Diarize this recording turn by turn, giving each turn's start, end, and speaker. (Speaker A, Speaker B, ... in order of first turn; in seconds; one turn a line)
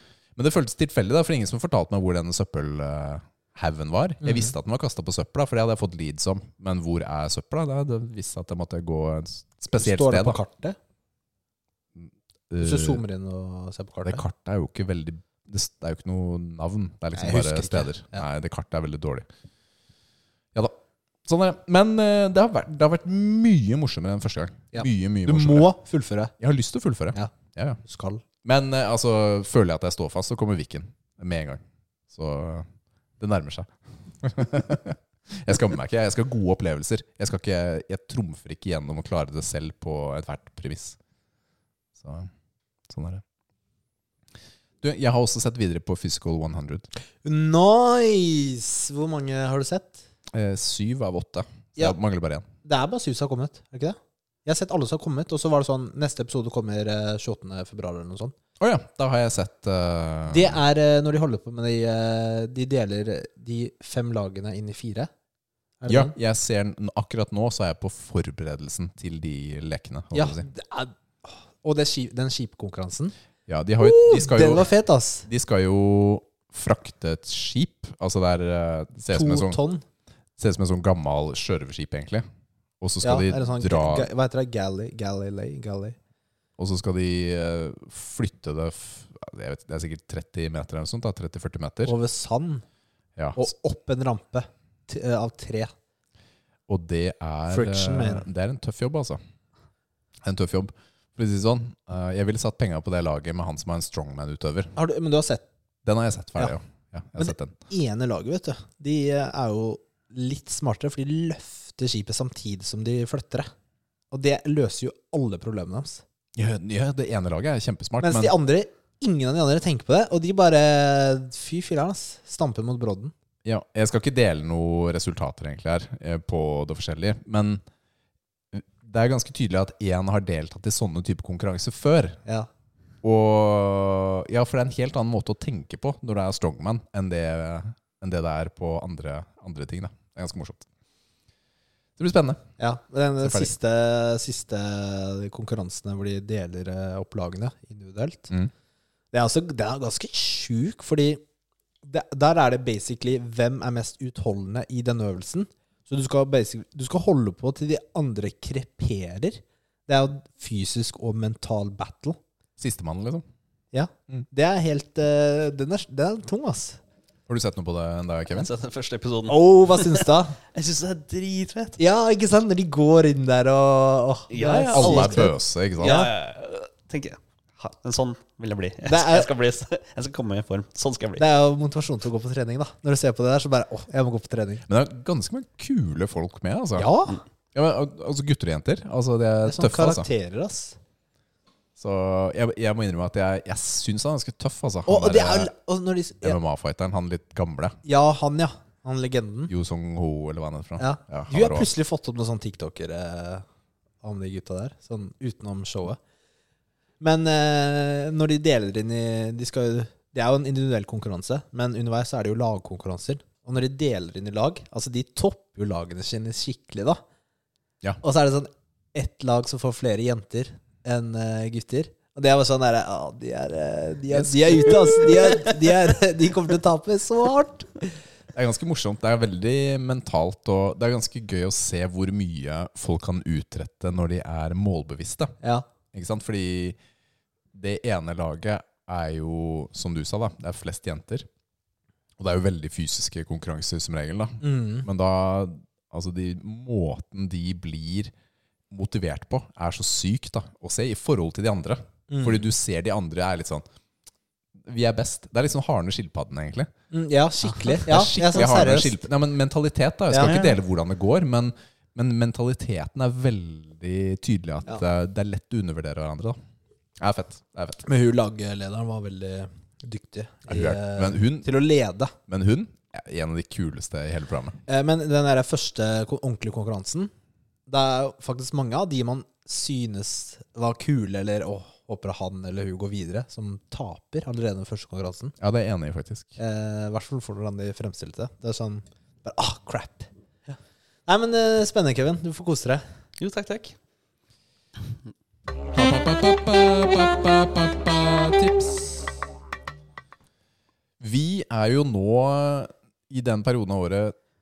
Speaker A: 0.3-10.4
Speaker B: 4.2-4.5
Speaker B: 9.7-10.8
Speaker A: 12.0-13.0
Speaker B: 12.6-14.2
Speaker A: 14.0-19.3
Speaker B: 17.1-18.2
Speaker A: 21.2-25.7
Speaker B: 24.7-26.3
Speaker A: 26.4-27.8
Speaker B: 27.8-28.2
Speaker A: 28.4-32.7
Speaker A: 33.2-41.0
Speaker A: 42.0-42.3
Speaker A: 42.9-43.2
Speaker A: 44.8-46.9
Speaker B: 47.2-50.0
Speaker A: 50.3-52.5
Speaker B: 52.6-58.3
Speaker A: 58.6-60.6
Speaker B: 60.3-65.1
Speaker B: 65.8-66.1
Speaker A: 65.9-70.5
Speaker B: 70.1-73.1
Speaker A: 73.5-74.7
Speaker B: 73.8-75.3
Speaker A: 75.2-79.6
Speaker B: 79.1-79.8
Speaker A: 80.4-82.2
Speaker A: 82.8-84.1
Speaker B: 83.0-86.0
Speaker A: 86.6-91.9
Speaker B: 91.8-92.6
Speaker A: 93.2-93.5
Speaker B: 93.3-95.7
Speaker A: 96.7-99.2
Speaker B: 97.5-98.2
Speaker A: 100.2-104.7
Speaker B: 104.8-105.4
Speaker A: 105.8-107.5
Speaker B: 107.2-113.5
Speaker B: 114.1-116.0
Speaker A: 116.3-118.3
Speaker B: 118.0-123.1
Speaker A: 123.4-127.6
Speaker A: 128.5-132.2
Speaker A: 133.0-140.7
Speaker A: 142.0-142.4
Speaker B: 142.6-148.3
Speaker A: 143.2-143.5
Speaker B: 149.1-151.2
Speaker B: 151.8-162.2
Speaker A: 162.6-163.2
Speaker B: 163.7-166.8
Speaker A: 167.3-168.5
Speaker C: 168.3-171.8
Speaker B: 169.3-170.4
Speaker B: 171.8-176.1
Speaker C: 174.3-181.2
Speaker A: 174.7-176.0
Speaker B: 178.8-179.3
Speaker B: 181.2-184.6
Speaker A: 184.7-186.9
Speaker B: 186.8-187.2
Speaker A: 187.5-190.1
Speaker B: 189.4-190.8
Speaker A: 191.8-195.5
Speaker B: 194.8-196.4
Speaker A: 196.2-197.8
Speaker B: 197.8-199.5
Speaker A: 199.5-201.7
Speaker B: 200.8-203.4
Speaker B: 204.0-206.0
Speaker B: 207.0-217.0
Speaker B: 218.0-227.8
Speaker A: 224.1-225.3
Speaker A: 228.3-235.3
Speaker A: 235.9-236.8
Speaker A: 237.5-241.3
Speaker A: 242.2-248.1
Speaker B: 244.4-244.9
Speaker A: 248.7-253.6
Speaker B: 252.1-252.5
Speaker A: 254.6-256.7
Speaker B: 256.9-259.0
Speaker A: 257.8-266.4
Speaker B: 260.1-260.4
Speaker C: 260.2-260.5
Speaker A: 267.0-267.8
Speaker B: 267.8-272.1
Speaker A: 270.5-271.5
Speaker A: 272.3-274.6
Speaker B: 274.7-277.1
Speaker B: 277.7-285.3
Speaker A: 285.4-286.4
Speaker B: 286.4-290.1
Speaker B: 291.1-292.8
Speaker C: 293.2-293.7
Speaker A: 295.7-298.9
Speaker A: 301.0-304.1